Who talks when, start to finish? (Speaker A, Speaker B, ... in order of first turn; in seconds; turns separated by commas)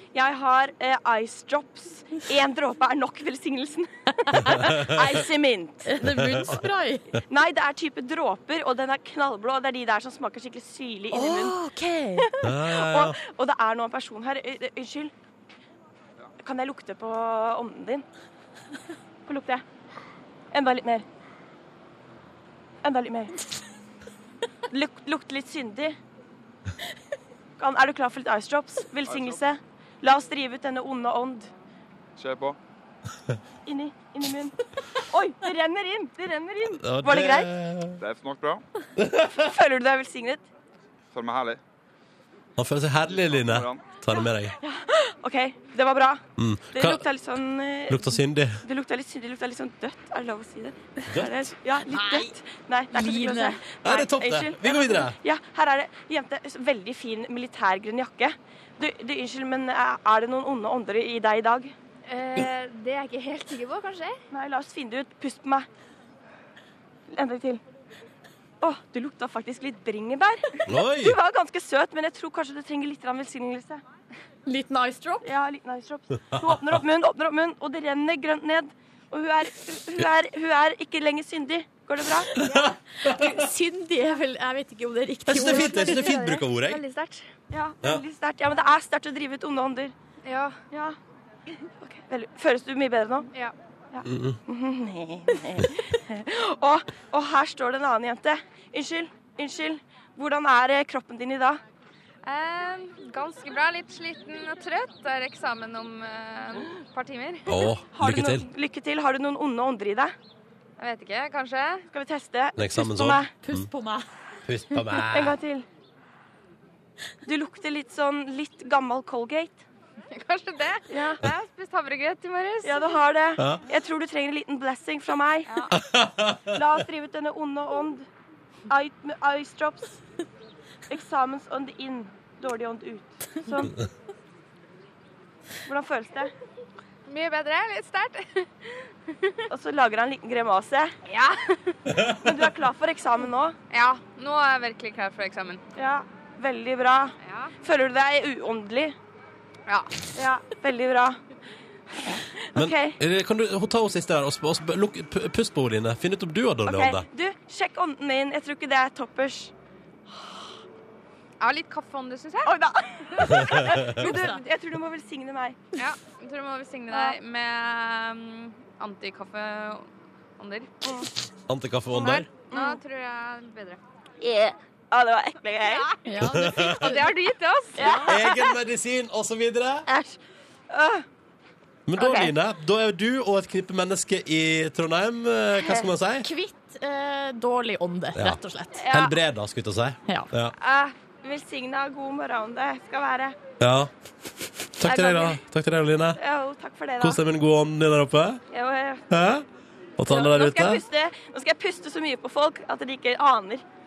Speaker A: 0.1-6.0, Speaker B: 4.3-4.7, Speaker B: 5.8-7.1, Speaker C: 6.0-6.6, Speaker A: 7.3-11.6, Speaker B: 11.1-12.2, Speaker A: 12.3-15.1, Speaker C: 12.4-13.2, Speaker A: 16.4-18.0, Speaker A: 19.3-19.6, Speaker A: 20.5-21.1, Speaker A: 22.8-23.3, Speaker A: 24.7-26.0, Speaker A: 27.6-31.5, Speaker D: 29.1-29.4, Speaker D: 32.2-32.6, Speaker A: 33.7-37.5, Speaker C: 36.8-38.0, Speaker D: 38.0-38.6, Speaker C: 39.0-39.5, Speaker A: 39.4-40.5, Speaker D: 41.1-41.6, Speaker C: 42.6-44.6, Speaker D: 43.3-43.9, Speaker A: 44.6-46.2, Speaker C: 46.4-47.0, Speaker A: 46.7-61.7, Speaker C: 47.9-48.6, Speaker C: 51.1-51.4, Speaker B: 51.9-52.3, Speaker B: 52.9-53.6, Speaker C: 53.8-55.2, Speaker E: 62.1-64.1, Speaker A: 64.3-65.7, Speaker A: 67.1-67.6, Speaker A: 68.6-73.8, Speaker C: 70.7-71.2, Speaker B: 74.5-75.3, Speaker A: 75.2-82.4, Speaker C: 76.3-76.6, Speaker C: 82.3-83.3, Speaker B: 83.1-86.1, Speaker C: 85.3-86.8, Speaker E: 85.5-87.2, Speaker A: 87.5-89.9, Speaker E: 90.3-90.6, Speaker A: 90.7-91.0, Speaker A: 91.8-93.3, Speaker A: 93.9-101.6, Speaker C: 94.1-94.4, Speaker E: 102.2-107.7, Speaker C: 107.5-108.5, Speaker A: 107.9-110.2, Speaker E: 110.8-111.9, Speaker A: 111.9-113.3, Speaker C: 112.6-113.7, Speaker B: 113.4-114.1, Speaker C: 114.5-115.4, Speaker A: 115.1-115.7, Speaker A: 117.3-119.7, Speaker E: 120.1-123.0, Speaker A: 120.9-121.2, Speaker A: 122.6-125.7, Speaker E: 125.5-125.7, Speaker C: 125.7-126.6, Speaker A: 126.5-128.1, Speaker A: 128.7-130.0, Speaker A: 130.9-133.8, Speaker A: 135.7-136.3, Speaker E: 137.1-139.4, Speaker A: 139.5-141.0, Speaker E: 141.1-141.7, Speaker A: 142.2-143.6, Speaker E: 143.7-145.6, Speaker A: 145.8-149.0, Speaker E: 147.2-147.6, Speaker E: 149.7-150.0, Speaker A: 150.2-151.2, Speaker A: 152.5-153.0, Speaker C: 152.6-157.1, Speaker A: 156.7-159.5, Speaker E: 161.4-162.5, Speaker A: 162.5-165.6, Speaker B: 164.0-164.4, Speaker E: 165.8-169.9, Speaker A: 166.9-167.2, Speaker E: 170.4-170.7, Speaker C: 171.5-172.3, Speaker E: 171.9-173.8, Speaker A: 172.4-172.8, Speaker A: 174.2-175.9, Speaker E: 175.6-178.1, Speaker B: 176.1-177.2, Speaker C: 176.2-176.9, Speaker B: 177.8-178.1, Speaker A: 177.8-178.4, Speaker C: 178.0-179.9, Speaker A: 179.9-180.2, Speaker A: 180.7-181.0, Speaker C: 181.9-186.3, Speaker A: 182.0-182.3, Speaker A: 185.6-185.9, Speaker B: 186.2-188.8, Speaker C: 188.2-190.6, Speaker A: 188.8-189.2, Speaker A: 190.6-193.4, Speaker C: 193.6-193.9, Speaker C: 194.8-196.2, Speaker A: 194.8-195.4, Speaker A: 196.2-197.2, Speaker C: 197.0-198.4, Speaker A: 198.5-199.0, Speaker C: 199.1-199.4, Speaker C: 200.0-200.8, Speaker A: 200.1-203.6